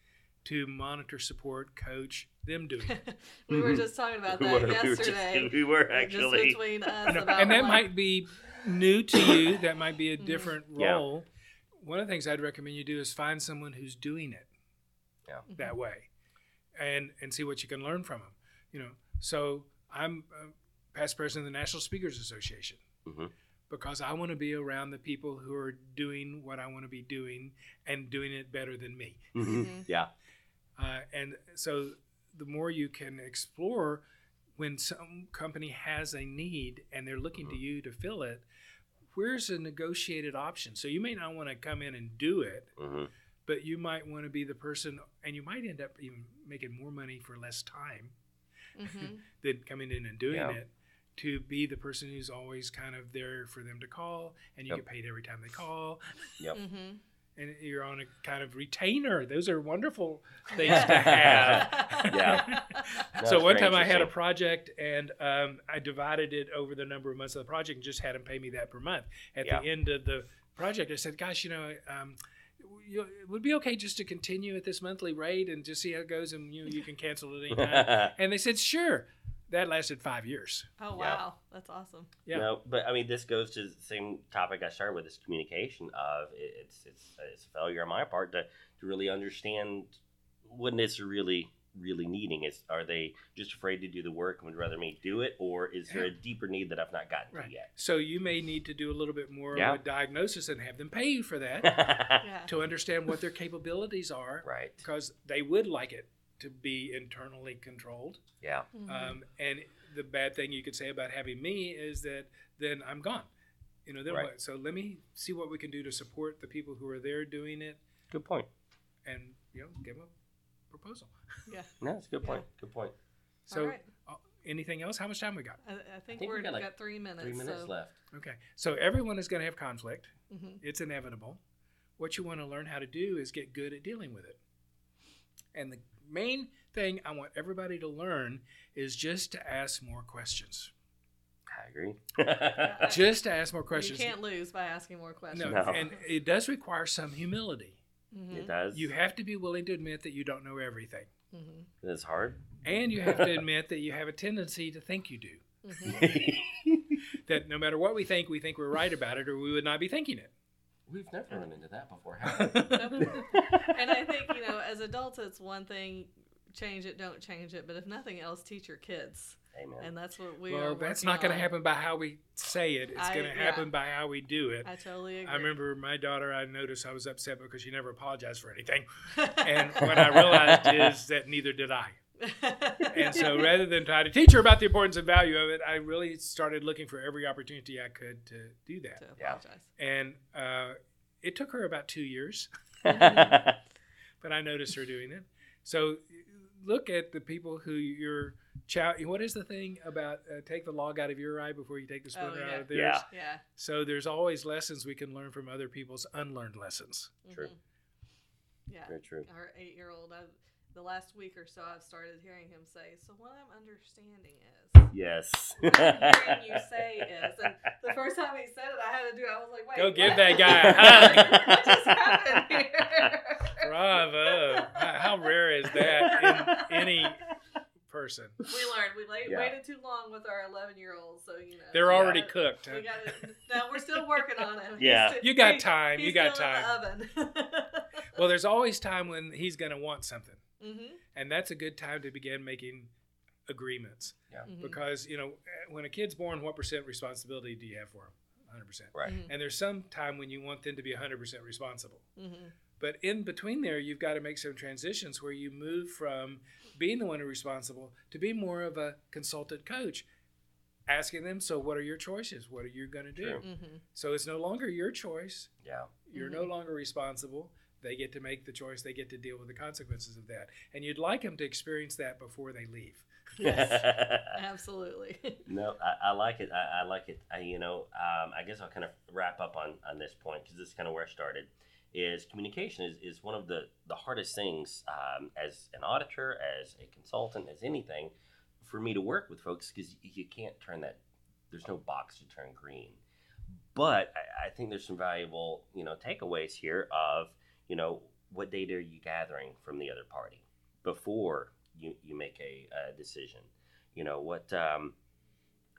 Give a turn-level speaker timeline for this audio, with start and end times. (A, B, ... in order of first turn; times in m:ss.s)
0:00.4-0:03.0 A
0:02.8-0:07.9 B
0:03.5-0:07.1 C
0:07.1-0:11.3 A
0:10.2-0:10.5 B
0:10.8-0:11.0 C
0:11.8-0:14.5 A
0:15.5-0:15.8 B
0:15.6-0:16.1 A
0:16.8-0:22.8 A
0:23.0-0:23.3 C
0:23.7-0:29.7 A
0:29.3-0:30.1 C
0:29.4-0:29.8 B
0:30.8-0:34.0 A
0:34.6-0:38.4 A
0:39.1-0:42.7 A
0:42.8-0:43.1 C
0:43.4-0:48.1 A
0:48.8-0:49.2 B
0:49.0-0:56.1 A
0:50.3-0:50.6 C
0:56.5-0:57.0 B
0:57.4-1:20.7 A
1:00.5-1:02.0 B
1:00.6-1:02.4 C
1:03.2-1:04.1 C
1:17.5-1:18.1 C
1:20.8-1:22.1 B
1:20.9-1:21.2 C
1:22.3-1:37.7 C
1:37.3-1:48.2 A
1:39.5-1:39.8 C
1:41.6-1:42.2 C
1:42.2-1:42.5 B
1:44.4-1:44.8 C
1:48.4-1:48.7 C
1:48.7-1:49.2 B
1:48.9-1:53.3 A
1:53.8-1:57.8 A
1:58.1-1:58.5 C
1:59.0-2:00.1 A
2:00.7-2:01.1 A
2:01.8-2:02.9 C
2:03.5-2:05.6 A
2:03.5-2:03.9 B
2:05.6-2:07.7 B
2:06.1-2:08.0 C
2:08.1-2:11.4 A
2:10.3-2:10.6 B
2:12.0-2:14.4 A
2:15.5-2:20.7 A
2:21.5-2:22.9 C
2:22.6-2:23.1 B
2:22.9-2:24.2 A
2:23.7-2:26.0 B
2:25.3-2:27.8 A
2:25.4-2:25.8 C
2:28.1-2:28.5 B
2:28.3-2:28.9 C
2:28.7-2:31.1 A
2:31.3-2:31.7 B
2:31.8-2:32.4 C
2:32.6-2:35.9 A
2:33.0-2:33.4 C
2:35.6-2:36.1 B
2:35.8-2:37.0 C
2:37.3-2:40.3 A
2:40.9-2:43.2 C
2:42.3-2:43.4 A
2:42.7-2:51.5 B
2:49.5-2:49.9 C
2:50.5-2:54.7 A
2:53.0-2:53.7 B
2:54.6-2:55.6 B
2:55.2-3:02.0 A
2:59.2-2:59.9 B
3:02.2-3:03.5 B
3:02.9-3:09.0 A
3:09.0-3:09.7 B
3:09.8-3:12.5 A
3:12.8-3:13.6 C
3:12.8-3:13.4 B
3:14.2-3:23.0 A
3:22.1-3:23.4 B
3:22.7-3:23.0 C
3:23.6-3:27.2 A
3:27.2-3:27.6 B
3:28.7-3:34.9 B
3:28.9-3:29.3 C
3:34.9-3:37.0 C
3:35.6-3:43.7 B
3:39.7-3:41.5 A
3:40.0-3:43.1 C
3:43.6-3:47.2 A
3:44.3-3:44.8 B
3:45.8-3:46.9 C
3:45.8-3:46.2 B
3:47.9-3:48.4 A
3:48.5-3:58.2 B
3:49.2-3:49.6 C
3:51.7-3:53.3 A
3:51.9-3:52.2 C
3:54.8-3:55.2 C
3:55.2-3:56.7 A
3:58.1-4:00.4 A
4:00.6-4:01.0 B
4:01.1-4:02.9 A
4:03.5-4:12.0 A
4:04.4-4:04.8 B
4:09.0-4:09.3 B
4:12.2-4:12.5 B
4:12.8-4:20.0 A
4:20.9-4:25.5 A
4:23.2-4:23.4 C
4:23.4-4:23.8 B
4:25.6-4:25.9 C
4:26.1-4:33.1 A
4:26.2-4:26.5 B
4:33.4-4:34.3 C
4:33.4-4:35.4 B
4:35.4-4:51.0 C
4:51.5-4:53.0 C
4:53.7-5:04.9 C